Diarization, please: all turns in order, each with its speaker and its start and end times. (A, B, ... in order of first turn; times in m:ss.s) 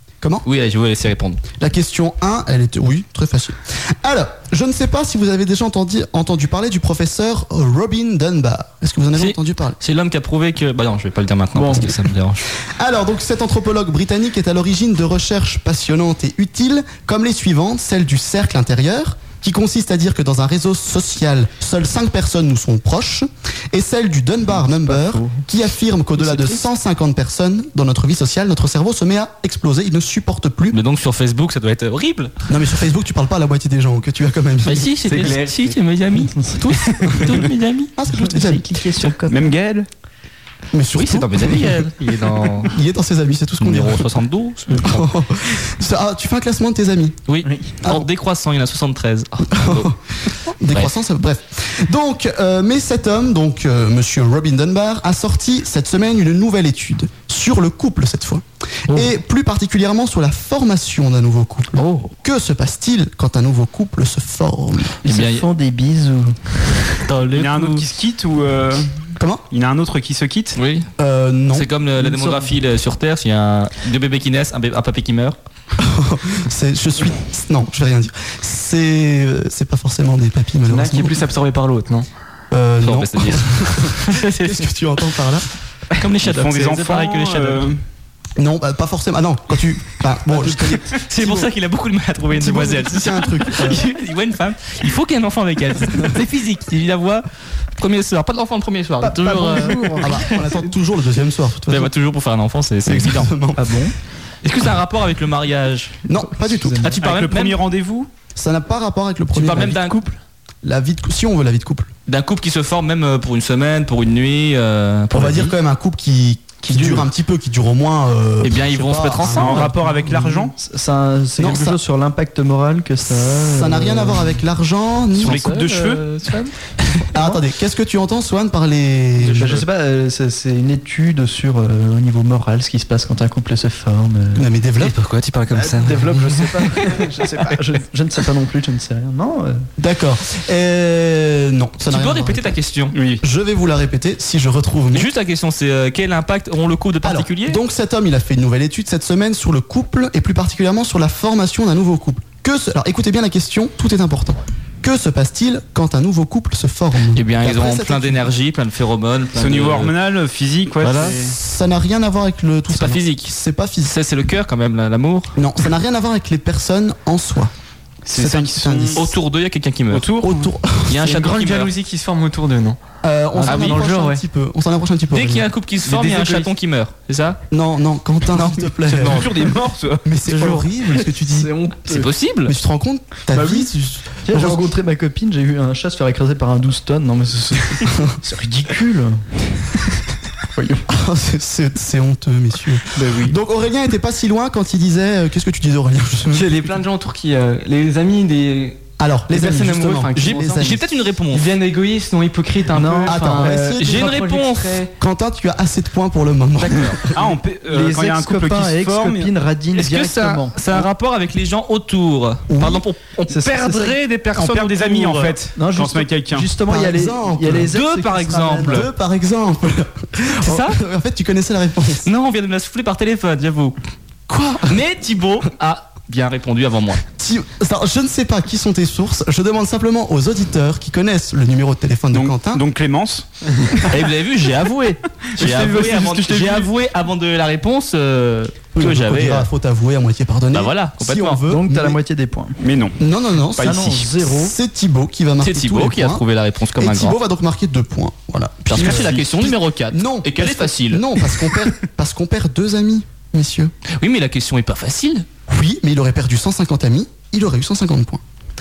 0:00.4-0:01.4 A
0:01.6-0:09.8 B
0:09.2-0:12.4 A
0:11.6-0:11.8 C
0:12.8-0:30.8 B
0:24.6-0:25.4 C
0:30.7-0:32.3 A
0:32.5-0:34.9 B
0:34.6-0:37.9 A
0:35.1-0:35.7 D
0:36.3-0:36.6 C
0:38.0-0:38.7 B
0:38.1-0:39.5 C
0:39.3-0:39.9 E
0:40.7-0:41.9 B
0:40.9-0:42.7 A
0:42.6-0:44.1 B
0:43.6-0:45.1 A
0:44.7-0:47.2 B
0:47.3-0:49.9 A
0:49.5-0:50.0 B
0:50.6-1:05.0 B
1:01.8-1:02.1 A
1:05.0-1:05.4 A
1:05.0-1:06.4 C
1:07.0-1:07.8 A
1:07.3-1:08.9 E
1:09.5-1:10.6 E
1:10.6-1:10.9 A
1:11.0-1:11.7 B
1:11.5-1:15.4 A
1:12.0-1:12.4 C
1:15.8-1:21.2 B
1:20.7-1:22.1 D
1:22.5-1:25.5 B
1:22.8-1:24.7 A
1:25.9-1:27.7 A
1:26.2-1:27.8 E
1:28.4-1:31.4 B
1:31.1-1:37.2 A
1:32.4-1:33.8 B
1:37.8-1:40.5 A
1:39.0-1:40.2 C
1:40.0-1:41.9 B
1:41.7-1:43.3 A
1:42.8-1:43.7 B
1:43.6-1:43.9 C
1:44.4-1:46.0 A
1:46.0-1:46.9 B
1:46.4-1:47.0 C
1:46.8-1:47.6 A
1:47.0-1:48.1 E
1:48.3-1:49.9 B
1:49.3-1:50.1 A
1:50.6-1:51.9 B
1:52.1-1:55.5 A
1:55.1-1:59.7 B
1:56.8-1:57.0 D
1:58.4-1:59.7 A
1:59.3-2:00.5 E
1:59.7-2:04.4 C
2:01.4-2:01.8 B
2:03.1-2:05.4 B
2:05.2-2:06.0 E
2:05.2-2:06.5 C
2:07.1-2:09.6 B
2:07.1-2:07.4 C
2:09.3-2:14.5 C
2:14.4-2:15.0 B
2:14.8-2:16.5 A
2:15.5-2:19.6 C
2:19.8-2:22.6 B
2:21.8-2:23.0 A
2:22.9-2:23.2 E
2:23.2-2:25.1 B
2:24.9-2:27.6 A
2:27.0-2:38.3 B
2:37.1-2:39.9 A
2:39.3-2:41.3 E
2:40.8-2:41.2 A
2:41.1-2:44.0 B
2:42.7-2:43.3 A
2:43.9-2:45.4 A
2:45.4-2:47.5 B
2:48.1-2:49.0 E
2:48.1-2:49.0 B
2:48.9-2:50.2 A
2:49.9-2:50.4 E
2:50.2-2:51.2 B
2:50.9-2:51.7 A
2:51.0-2:52.8 D
2:53.0-2:55.5 B
2:53.4-2:54.2 D
2:53.4-2:53.9 A
2:55.1-2:57.4 A
2:55.9-2:56.5 D
2:57.5-2:59.4 B
2:58.3-2:59.2 A
2:58.9-3:00.0 E
3:00.0-3:01.5 B
3:00.3-3:00.7 A
3:01.2-3:02.1 C
3:01.9-3:02.5 A
3:02.4-3:04.6 B
3:03.3-3:03.7 C
3:04.2-3:09.2 C
3:10.5-3:10.8 C
3:10.9-3:16.7 B
3:13.0-3:13.3 C
3:16.3-3:20.8 D
3:19.0-3:20.8 B
3:20.1-3:21.5 A
3:21.3-3:24.9 D
3:22.7-3:23.8 C
3:23.1-3:24.0 B
3:23.8-3:24.8 A
3:25.0-3:27.2 B
3:26.6-3:27.0 A
3:27.1-3:29.3 E
3:27.7-3:30.9 C
3:29.7-3:35.4 A
3:32.5-3:32.8 B
3:33.3-3:34.0 C
3:34.3-3:36.5 E
3:35.6-3:38.9 C
3:36.6-3:37.7 B
3:37.7-3:38.9 A
3:38.6-3:42.1 B
3:40.4-3:40.8 A
3:42.0-3:43.8 A
3:44.3-3:44.8 B
3:44.6-3:47.0 A
3:47.2-3:52.6 B
3:52.1-3:53.2 E
3:53.9-3:59.5 A
3:55.4-3:56.7 E
3:58.7-4:02.0 B
4:00.5-4:01.4 A
4:01.5-4:02.6 C
4:02.6-4:03.0 E
4:03.0-4:06.2 B
4:03.6-4:03.9 E
4:03.6-4:04.5 C
4:05.4-4:07.2 A
4:06.8-4:13.7 B
4:08.7-4:11.3 A
4:14.0-4:15.2 A
4:15.5-4:18.2 B